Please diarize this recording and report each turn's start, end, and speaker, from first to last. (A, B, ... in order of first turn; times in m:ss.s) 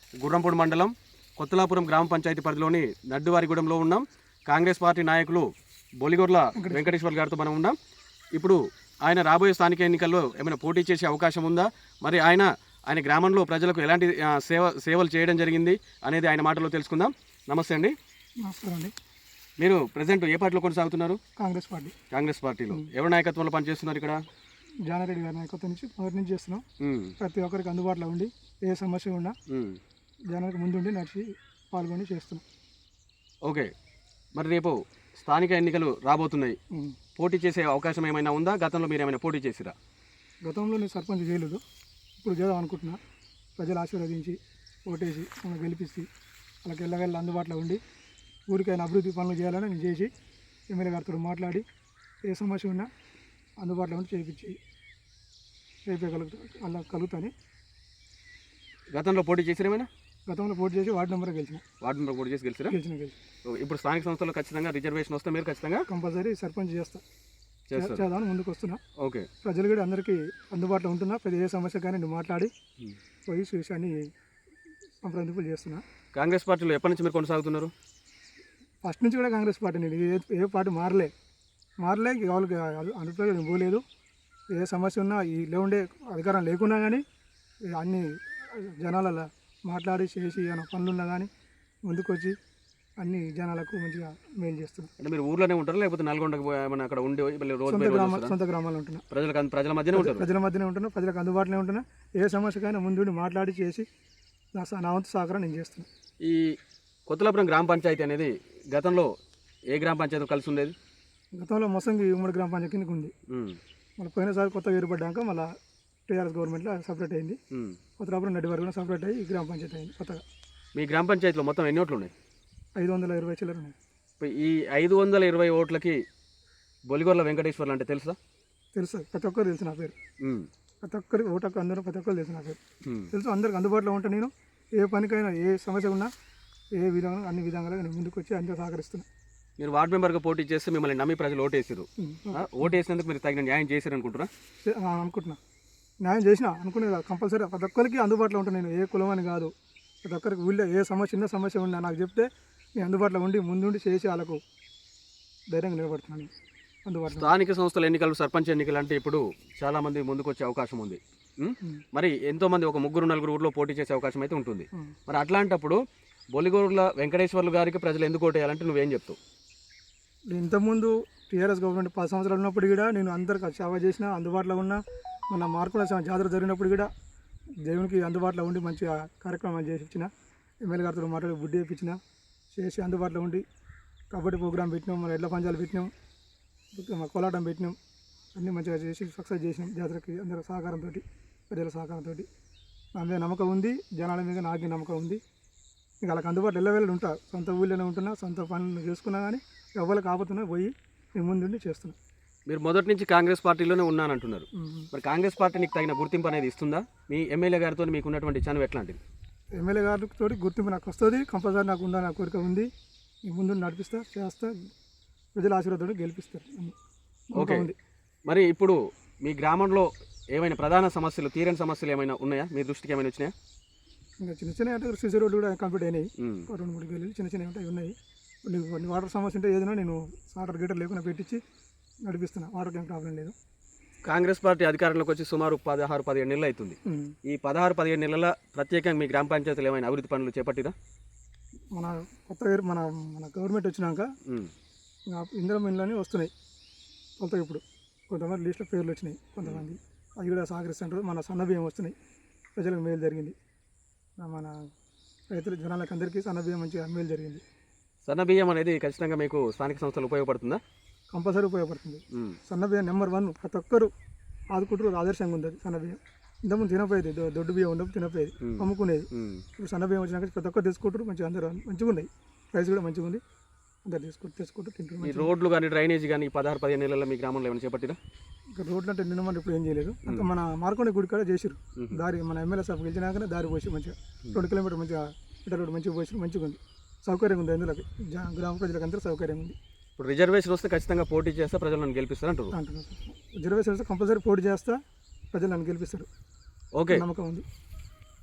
0:00.2-0:07.8 A
0:06.6-0:07.0 B
0:08.4-0:18.0 A
0:18.4-0:18.9 B
0:19.6-0:21.2 A
0:21.4-0:22.0 B
0:22.1-0:24.2 A
0:24.9-0:26.6 B
0:26.8-0:27.2 A
0:27.2-0:29.4 B
0:29.5-0:29.8 A
0:30.3-0:32.4 B
0:33.5-0:33.7 A
0:34.4-0:36.6 A
0:36.7-0:37.0 B
0:37.2-0:39.8 A
0:40.4-0:41.6 B
0:42.2-0:43.0 B
0:43.6-0:46.1 B
0:46.6-0:47.8 B
0:48.5-0:50.1 B
0:50.7-0:51.7 B
0:52.3-0:52.9 B
0:53.6-0:54.6 B
0:55.9-0:57.3 B
0:58.9-0:59.9 A
1:00.3-1:01.6 B
1:01.8-1:02.8 A
1:02.7-1:03.2 B
1:03.4-1:05.9 A
1:05.9-1:07.0 B
1:07.7-1:08.0 A
1:07.8-1:08.8 B
1:09.0-1:09.3 A
1:09.4-1:12.5 B
1:13.3-1:14.1 B
1:15.0-1:15.8 B
1:16.2-1:17.7 A
1:18.8-1:21.1 B
1:21.8-1:23.8 B
1:24.5-1:27.0 B
1:27.8-1:31.3 B
1:31.9-1:32.4 B
1:33.0-1:34.9 B
1:35.0-1:38.3 A
1:37.7-1:39.0 B
1:39.1-1:40.3 A
1:39.9-1:43.9 B
1:44.6-1:45.9 B
1:46.2-1:46.6 A
1:47.1-1:49.1 A
1:49.7-1:50.8 A
1:51.4-1:53.1 B
1:53.3-1:53.6 A
1:54.0-1:55.5 B
1:56.1-1:57.4 B
1:57.5-1:57.8 A
1:58.0-2:00.2 B
2:00.8-2:02.1 A
2:02.8-2:03.8 B
2:04.2-2:06.0 A
2:06.9-2:08.2 A
2:08.8-2:10.0 B
2:10.2-2:10.5 A
2:10.8-2:12.6 B
2:12.8-2:13.1 A
2:13.1-2:16.1 B
2:16.8-2:19.1 B
2:19.6-2:24.3 A
2:22.0-2:22.7 B
2:24.6-2:25.4 B
2:26.0-2:29.5 B
2:30.0-2:34.4 B
2:35.5-2:36.3 B
2:36.9-2:37.3 B
2:37.1-2:45.8 A
2:46.4-2:49.2 A
2:50.3-2:56.9 B
2:57.6-3:00.1 B
3:00.7-3:02.0 B
3:02.5-3:03.4 B
3:04.1-3:05.9 B
3:06.8-3:07.8 B
3:08.4-3:12.3 B
3:13.0-3:15.2 B
3:16.0-3:22.0 B
3:22.5-3:29.0 A
3:24.6-3:24.9 B
3:29.6-3:32.7 B
3:33.3-3:34.7 B
3:35.4-3:36.8 B
3:37.3-3:37.8 B
3:37.4-3:37.7 A
3:38.3-3:43.3 A
3:44.2-3:51.4 B
3:46.2-3:46.5 A
3:52.1-3:53.4 B
3:54.1-4:00.8 A
3:56.8-3:57.2 B
4:01.8-4:04.1 B
4:04.3-4:04.5 A
4:05.1-4:06.3 B
4:07.2-4:12.0 B
4:12.6-4:13.4 B
4:14.2-4:14.6 B
4:15.3-4:17.4 B
4:18.1-4:20.6 A
4:21.1-4:23.9 B
4:22.1-4:22.4 A
4:24.5-4:33.2 B
4:28.4-4:29.4 A
4:33.9-4:35.3 B
4:35.0-4:38.0 A
4:38.6-4:49.6 B
4:41.8-4:42.0 A
4:50.0-4:52.6 A
4:52.5-4:54.8 B
4:55.3-4:56.1 B
4:56.8-4:57.0 A
4:56.9-4:57.4 B